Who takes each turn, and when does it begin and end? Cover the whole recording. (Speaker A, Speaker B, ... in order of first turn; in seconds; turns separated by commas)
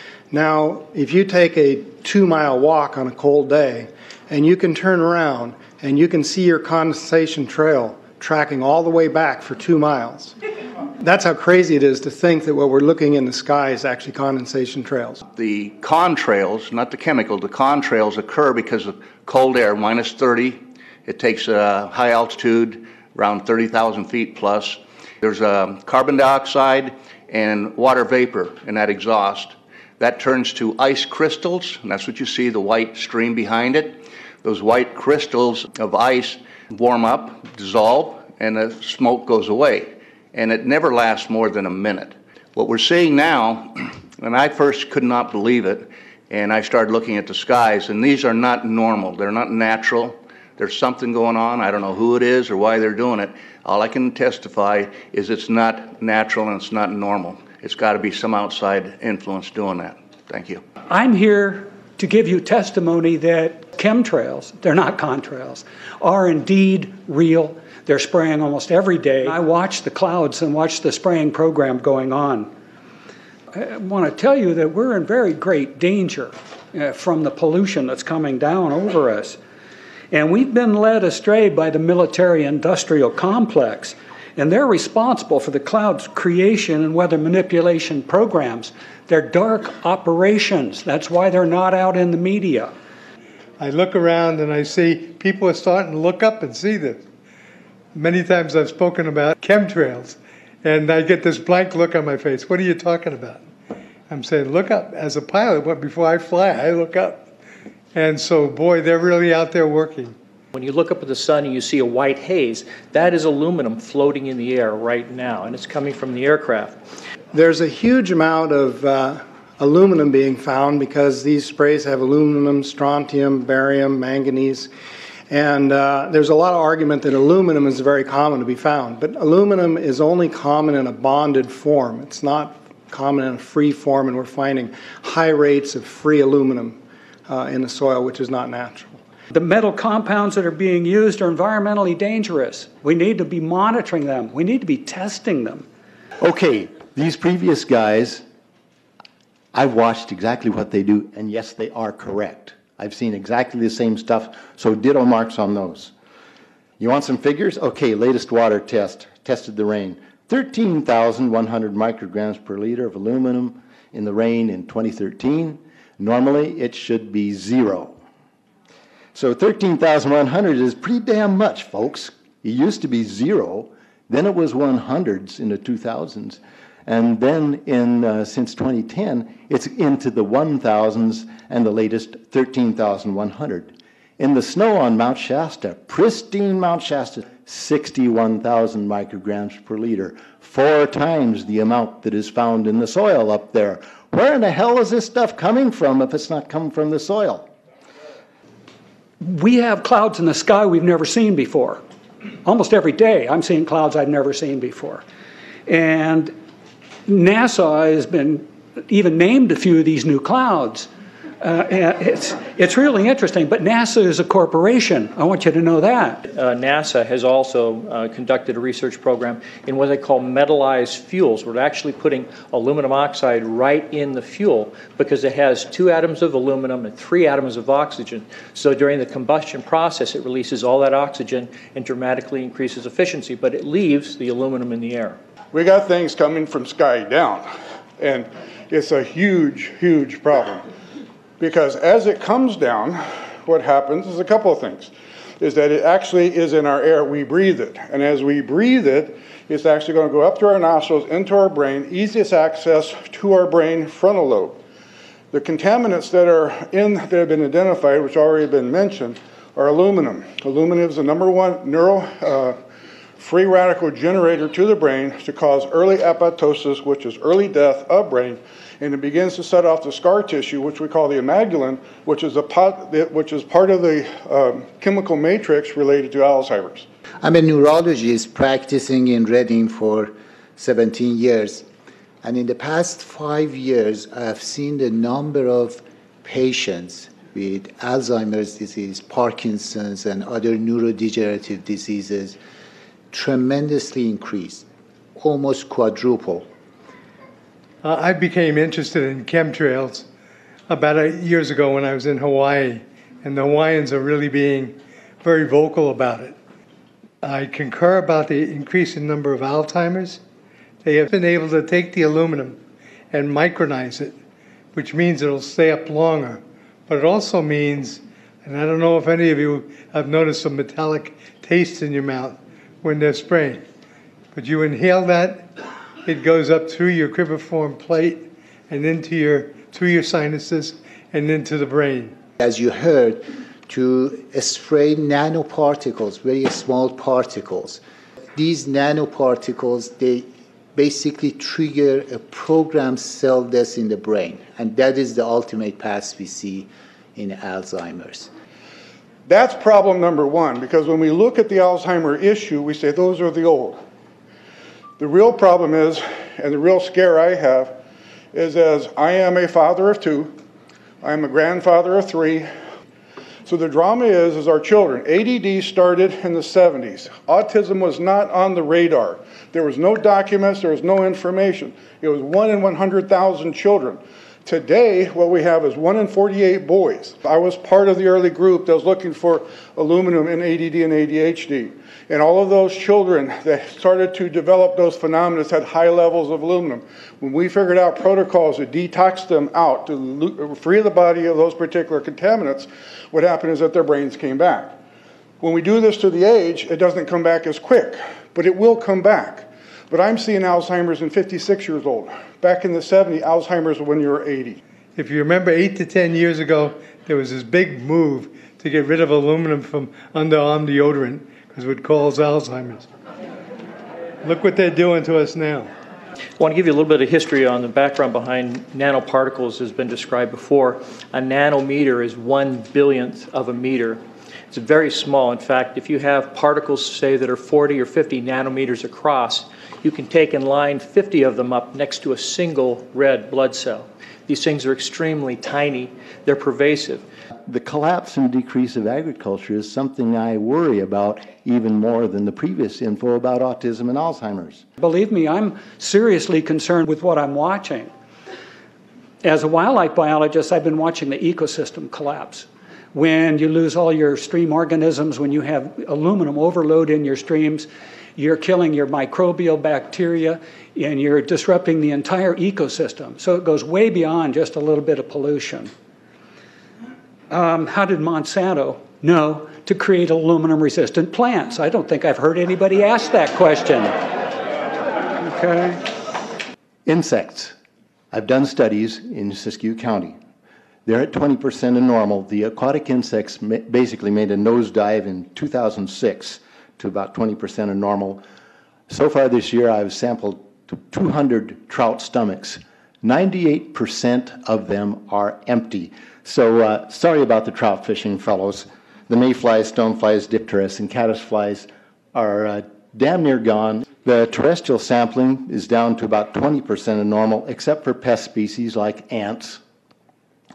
Speaker A: 0.3-10.3, Speaker A: 11.0-15.2, Speaker B: 15.3-60.6, Speaker C: 60.9-72.5, Speaker C: 73.5-79.4, Speaker C: 80.1-92.7, Speaker D: 93.6-97.0, Speaker D: 97.9-103.4, Speaker D: 104.1-107.3, Speaker D: 107.9-110.1, Speaker E: 110.5-116.8, Speaker A: 117.3-124.7, Speaker A: 125.3-139.0, Speaker C: 139.3-145.7, Speaker F: 146.2-148.2, Speaker F: 149.5-155.9, Speaker F: 156.8-168.0, Speaker F: 169.1-197.5, Speaker C: 199.2-201.8, Speaker C: 202.4-205.0, Speaker C: 205.7-206.3, Speaker C: 207.1-210.9, Speaker C: 211.4-216.2, Speaker E: 216.2-235.2, Speaker G: 235.5-237.4, Speaker G: 238.0-240.6, Speaker G: 241.4-254.6, Speaker G: 255.3-262.5, Speaker G: 263.2-276.9, Speaker H: 277.2-281.6, Speaker H: 282.2-292.3, Speaker H: 293.1-294.6, Speaker H: 295.2-296.4, Speaker D: 297.8-300.0, Speaker D: 300.7-306.3, Speaker D: 307.2-310.2, Speaker D: 310.8-312.6, Speaker D: 313.1-314.1, Speaker D: 314.7-323.6, Speaker D: 324.3-325.4, Speaker D: 326.0-332.1, Speaker H: 332.4-337.8, Speaker H: 338.4-340.2, Speaker H: 340.8-348.3, Speaker G: 349.3-353.8, Speaker G: 355.0-357.8, Speaker G: 358.3-360.3, Speaker G: 361.0-362.5, Speaker G: 363.4-394.7, Speaker G: 395.4-404.6, Speaker D: 404.9-412.9, Speaker D: 414.2-415.7, Speaker E: 416.4-437.0, Speaker F: 437.5-444.6, Speaker C: 444.8-447.9, Speaker C: 449.2-465.7, Speaker C: 467.3-473.9, Speaker C: 475.2-475.8, Speaker F: 476.9-477.5, Speaker F: 478.1-480.1, Speaker F: 480.9-488.2, Speaker F: 488.9-509.6